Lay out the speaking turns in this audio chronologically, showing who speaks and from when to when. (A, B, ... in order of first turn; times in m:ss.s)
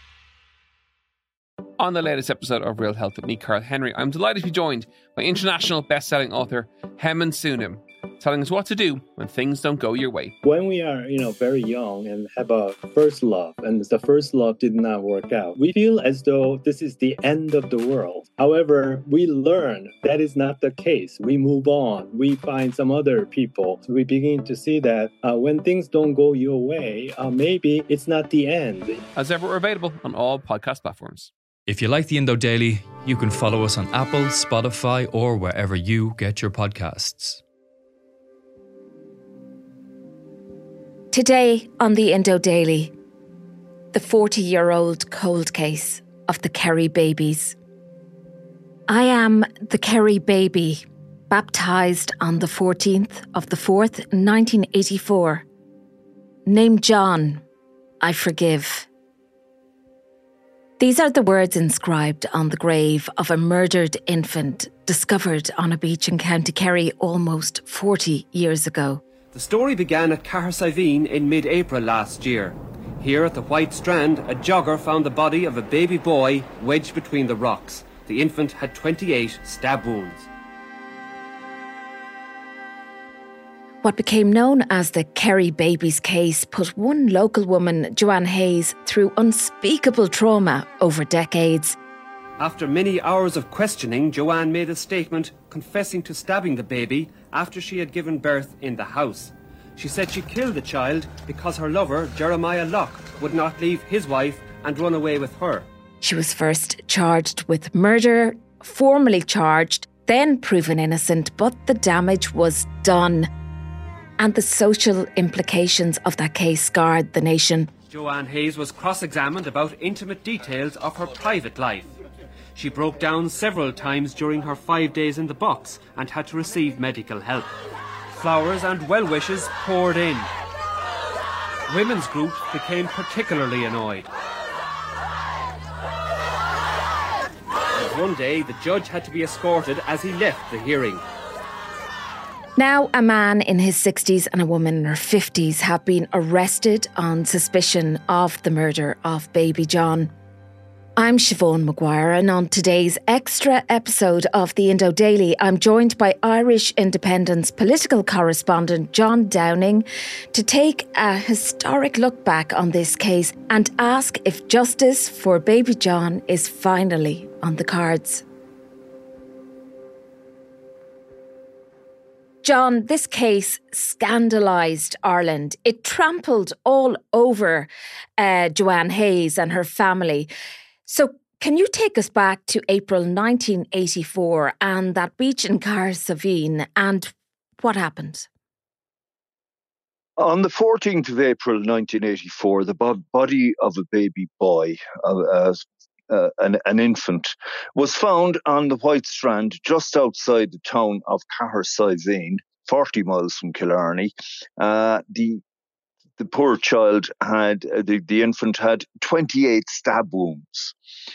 0:01.8-0:10.4 A
0:10.4-0:29.0 B
0:29.1-0:31.3 A
0:31.6-0:37.4 C
0:41.1-0:42.9 D
0:43.9-0:47.6 D
0:48.9-0:55.4 D
0:56.4-0:57.4 D
0:58.0-0:58.9 D
1:00.8-1:09.0 D
1:09.3-1:20.3 E
1:23.8-1:31.8 D
1:32.4-1:45.6 E
1:46.0-1:53.3 D
1:54.2-1:57.7 D
1:57.9-2:01.9 E
2:02.5-2:07.5 E
2:08.1-2:10.3 E
2:11.7-2:14.1 E
2:17.7-2:21.0 E
2:22.6-2:30.1 D
2:31.0-2:48.2 D
2:52.4-3:00.3 D
3:00.8-3:08.3 D
3:10.2-3:25.4 F
3:26.2-3:30.7 F